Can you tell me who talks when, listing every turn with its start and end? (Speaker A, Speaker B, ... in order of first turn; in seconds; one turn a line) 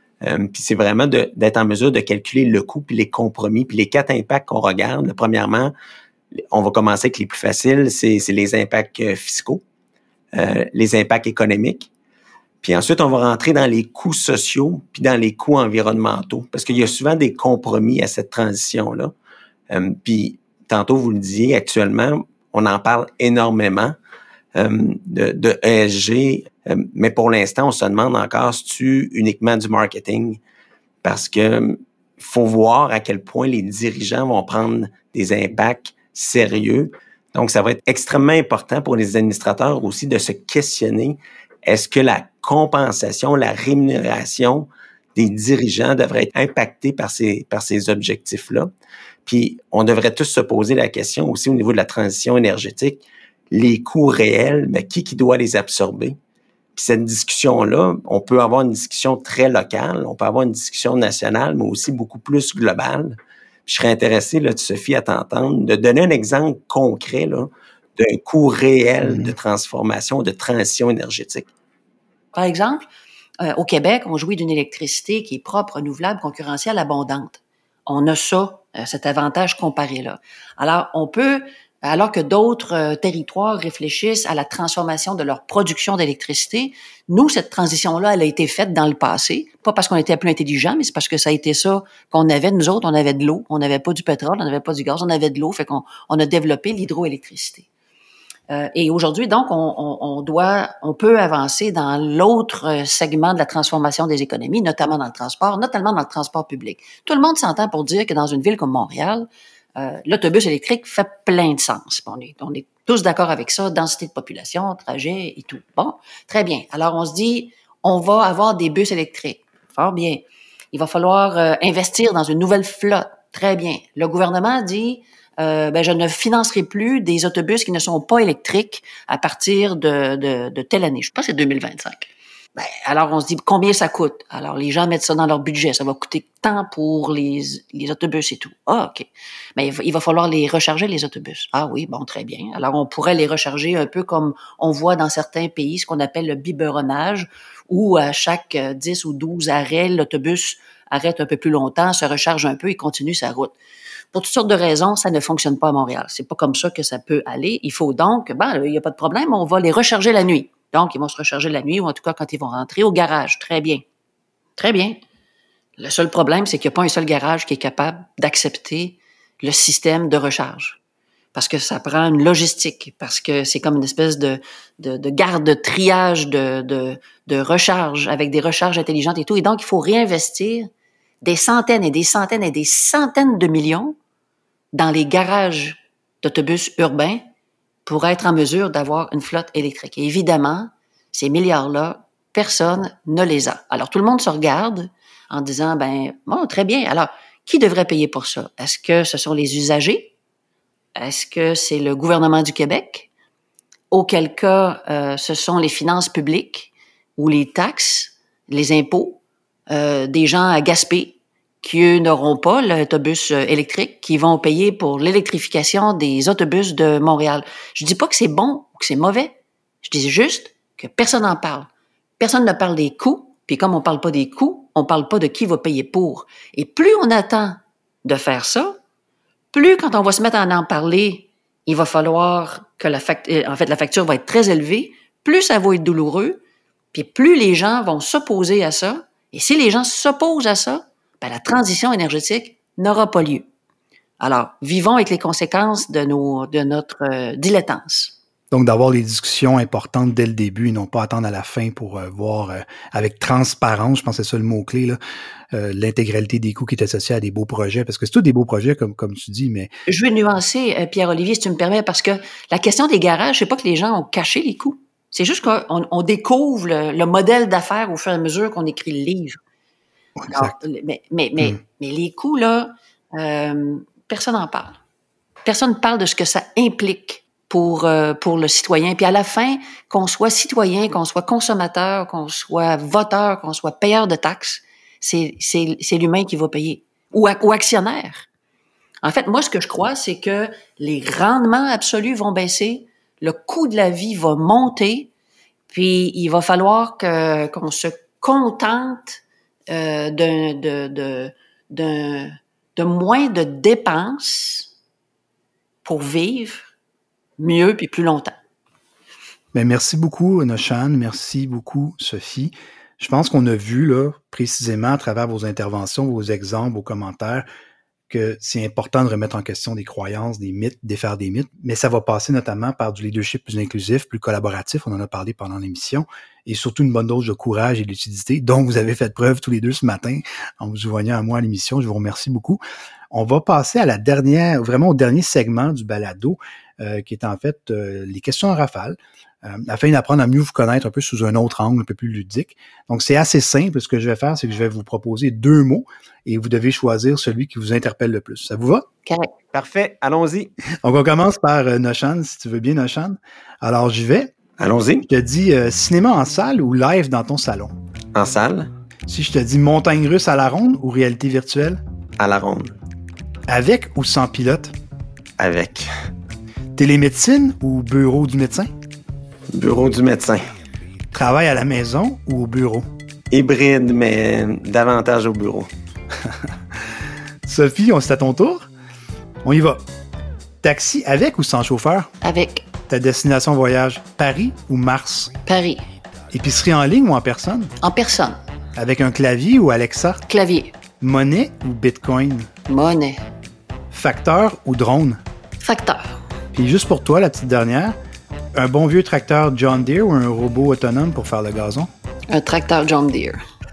Speaker A: 0.2-5.7
Speaker A: 6.5-9.6
Speaker A: 10.3-11.9
Speaker A: 12.6-19.1
Speaker A: 19.7-23.9
Speaker A: 24.5-30.4
Speaker A: 31.0-48.7
Speaker A: 49.2-56.2
Speaker A: 56.7-71.5
Speaker B: 72.3-72.8
Speaker B: 73.4-97.7
Speaker B: 98.5-153.6
Speaker B: 154.1-163.8
Speaker B: 164.6-165.0
Speaker B: 165.8-170.8
Speaker B: 171.3-180.7
Speaker B: 181.2-183.9
Speaker B: 184.7-187.2
Speaker B: 187.8-200.1
Speaker B: 200.9-203.1
Speaker B: 203.9-221.7
Speaker B: 222.2-228.7
Speaker B: 229.5-236.4
Speaker B: 236.9-243.4
Speaker B: 244.2-248.2
Speaker C: 248.5-255.0
Speaker C: 255.5-259.7
Speaker B: 259.9-269.4
Speaker C: 270.2-270.5
Speaker B: 270.3-274.8
Speaker B: 275.4-288.3
Speaker B: 289.0-295.1
Speaker B: 295.7-304.7
Speaker B: 305.8-306.7
Speaker B: 307.4-308.4
Speaker C: 309.5-317.4
Speaker C: 318.1-332.6
Speaker C: 333.1-348.9
Speaker B: 349.1-349.3
Speaker A: 349.5-350.5
Speaker C: 350.8-354.3
Speaker A: 354.6-355.1
Speaker C: 355.1-357.7
Speaker A: 358.1-358.7
Speaker C: 359.1-361.8
Speaker A: 362.2-362.7
Speaker C: 363.5-364.7
Speaker A: 365.4-365.9
Speaker C: 366.8-368.7
Speaker A: 369.5-370.5
Speaker C: 371.1-372.9
Speaker A: 373.3-375.7
Speaker C: 377.4-378.7
Speaker C: 379.4-379.8
Speaker C: 380.6-382.1
Speaker B: 382.2-382.6
Speaker C: 382.9-385.3
Speaker B: 385.4-385.8
Speaker C: 386.3-387.7
Speaker B: 387.8-388.4
Speaker C: 388.8-390.2
Speaker B: 390.2-390.7
Speaker C: 391.0-392.5
Speaker B: 392.7-393.2
Speaker C: 393.9-395.2
Speaker B: 395.6-396.0
Speaker C: 396.5-397.9
Speaker C: 398.5-401.9
Speaker B: 402.3-403.4